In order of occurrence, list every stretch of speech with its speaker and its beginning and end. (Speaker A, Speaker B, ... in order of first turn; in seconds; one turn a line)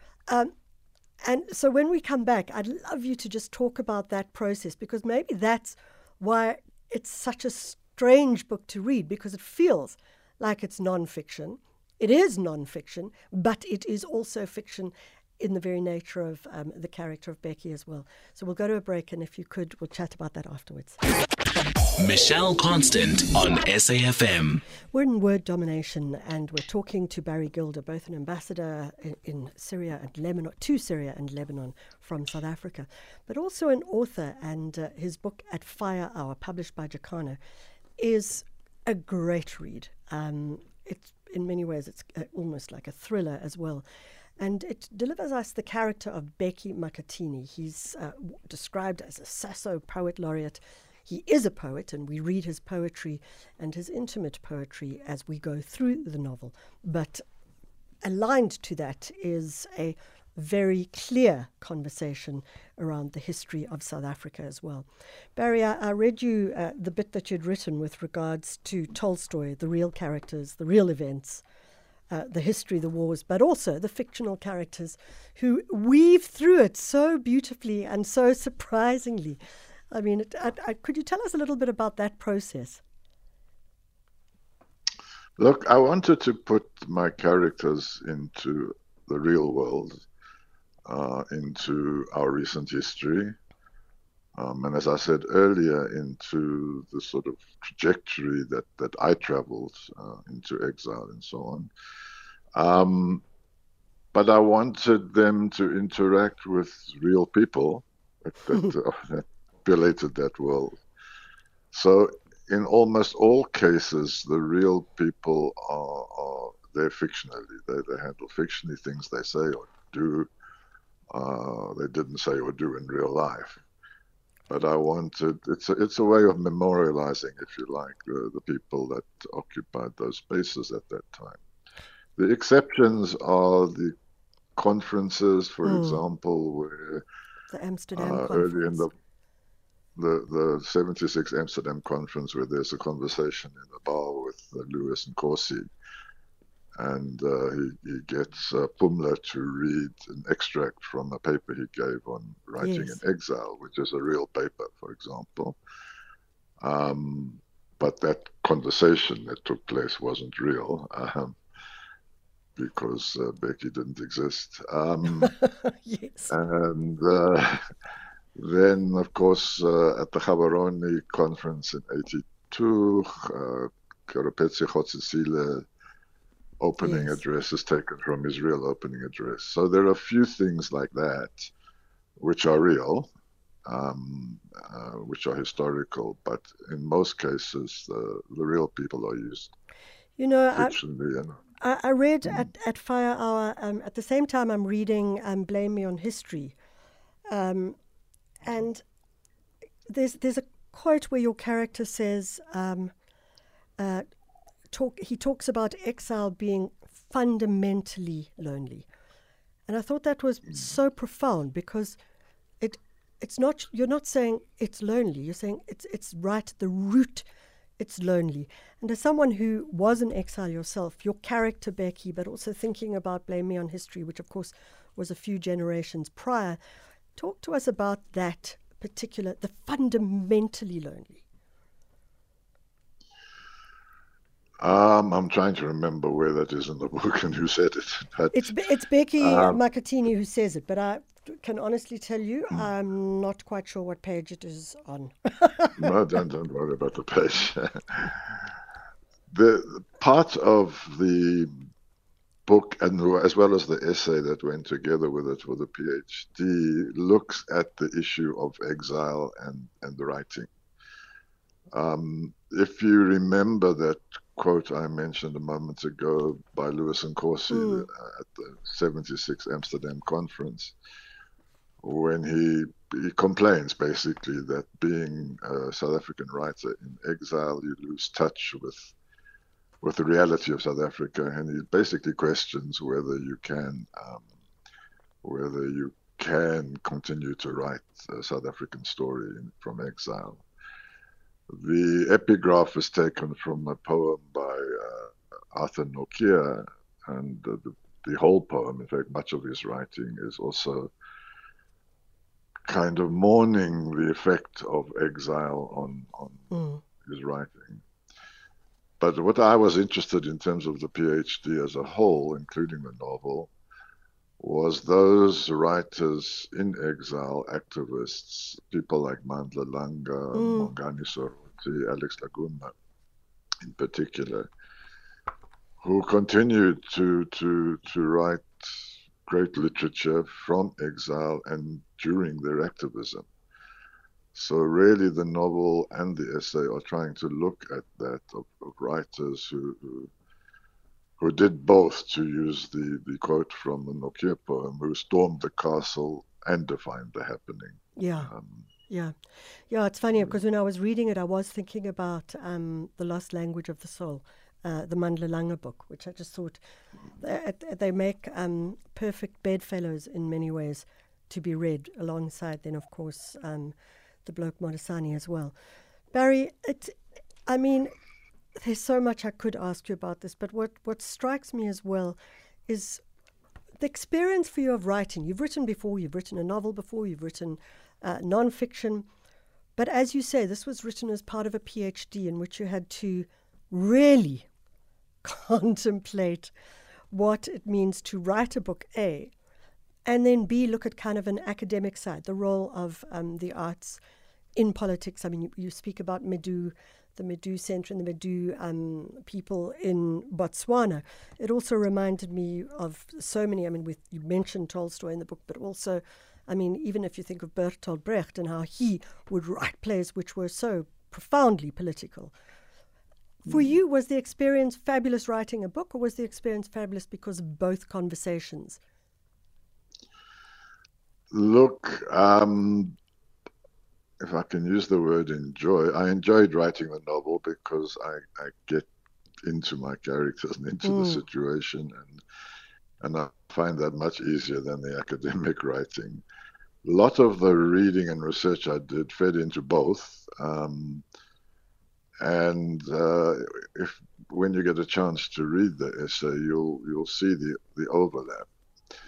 Speaker A: 1.2-21.0
Speaker B: 22.0-24.6
Speaker A: 24.9-37.4
Speaker A: 38.0-43.8
Speaker A: 44.4-57.2
Speaker A: 58.0-71.4
Speaker A: 72.1-79.4
Speaker A: 79.9-82.8
Speaker C: 85.4-90.1
Speaker C: 90.9-93.4
Speaker C: 94.4-101.7
Speaker C: 102.6-103.2
Speaker C: 104.1-110.8
Speaker C: 111.7-120.3
Speaker C: 121.1-123.6
Speaker C: 124.5-131.4
Speaker C: 132.2-133.9
Speaker C: 134.6-137.0
Speaker A: 135.6-136.0
Speaker A: 137.5-138.9
Speaker C: 138.0-138.9
Speaker C: 140.0-145.7
Speaker C: 146.8-155.6
Speaker A: 152.6-153.0
Speaker C: 156.6-161.4
Speaker C: 162.6-165.3
Speaker A: 165.2-166.3
Speaker C: 166.3-167.6
Speaker C: 168.4-175.7
Speaker C: 176.6-181.5
Speaker A: 176.8-177.2
Speaker C: 182.2-183.1
Speaker C: 183.7-189.5
Speaker A: 190.2-190.8
Speaker C: 190.5-191.4
Speaker A: 191.6-196.6
Speaker A: 197.3-197.8
Speaker A: 198.4-198.8
Speaker A: 199.9-202.9
Speaker A: 203.8-204.1
Speaker A: 204.7-208.9
Speaker A: 209.7-212.0
Speaker A: 212.6-217.3
Speaker A: 217.8-226.6
Speaker A: 227.2-231.2
Speaker C: 234.6-238.5
Speaker A: 238.3-245.9
Speaker C: 239.2-239.6
Speaker C: 245.8-248.5
Speaker C: 249.3-251.7
Speaker C: 252.5-260.5
Speaker C: 261.7-270.8
Speaker A: 267.5-267.9
Speaker C: 271.8-278.9
Speaker C: 279.8-284.3
Speaker C: 285.2-290.4
Speaker C: 291.5-300.9
Speaker C: 302.7-306.5
Speaker A: 306.5-306.8
Speaker C: 307.0-307.8
Speaker C: 309.0-313.5
Speaker C: 314.4-322.7
Speaker A: 320.3-320.7
Speaker C: 323.6-324.5
Speaker C: 325.8-333.3
Speaker C: 334.3-340.1
Speaker C: 341.2-348.7
Speaker A: 348.0-348.3
Speaker A: 348.9-349.1
Speaker A: 349.7-356.6
Speaker A: 357.2-365.5
Speaker A: 366.1-367.0
Speaker A: 367.5-367.9
Speaker A: 368.6-373.0
Speaker A: 373.8-379.1
Speaker A: 379.8-384.5
Speaker A: 385.2-386.5
Speaker A: 387.1-389.3
Speaker A: 390.1-394.0
Speaker A: 394.6-412.3
Speaker A: 413.4-418.8
Speaker C: 421.3-423.0
Speaker C: 424.2-428.9
Speaker C: 429.4-432.2
Speaker A: 430.8-431.2
Speaker C: 433.0-436.2
Speaker C: 436.8-441.0
Speaker C: 442.2-448.5